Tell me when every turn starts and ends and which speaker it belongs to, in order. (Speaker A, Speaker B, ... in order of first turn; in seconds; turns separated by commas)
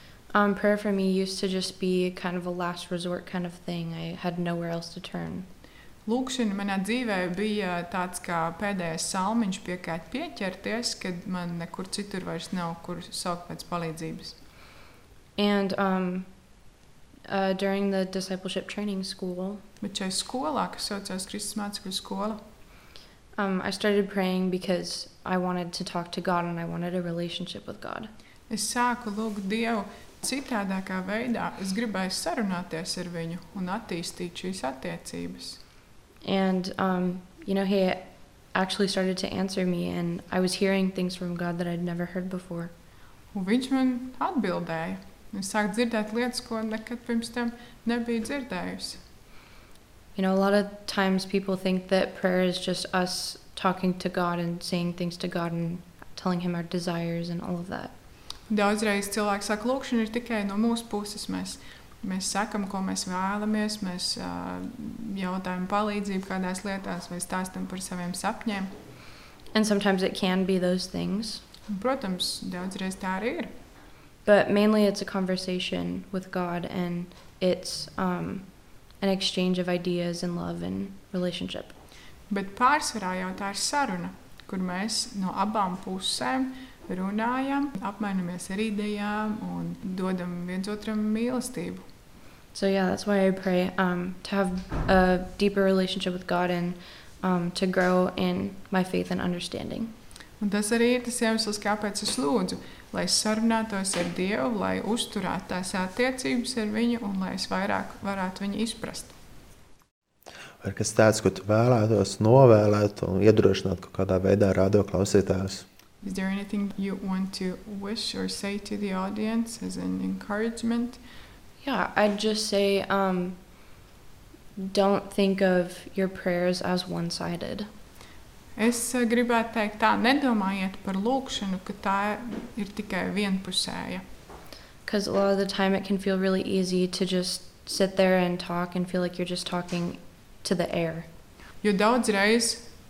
Speaker A: 0.3-5.5, Speaker B: 6.1-14.4, Speaker A: 15.4-16.3, Speaker A: 17.3-19.6, Speaker B: 19.8-22.4, Speaker A: 23.4-28.1, Speaker B: 28.5-35.6, Speaker A: 36.2-42.7, Speaker B: 43.3-49.0, Speaker A: 50.1-57.9, Speaker B: 58.5-68.7, Speaker A: 69.5-71.4, Speaker B: 71.7-73.5, Speaker A: 74.2-78.5, Speaker A: 79.0-81.7, Speaker B: 82.3-91.8, Speaker A: 92.5-99.9, Speaker B: 100.4-109.1, Speaker C: 110.6-115.7, Speaker B: 116.0-121.0, Speaker A: 121.6-123.4, Speaker A: 124.6-127.7, Speaker B: 128.6-134.0, Speaker A: 134.8-141.1, Speaker B: 141.6-142.7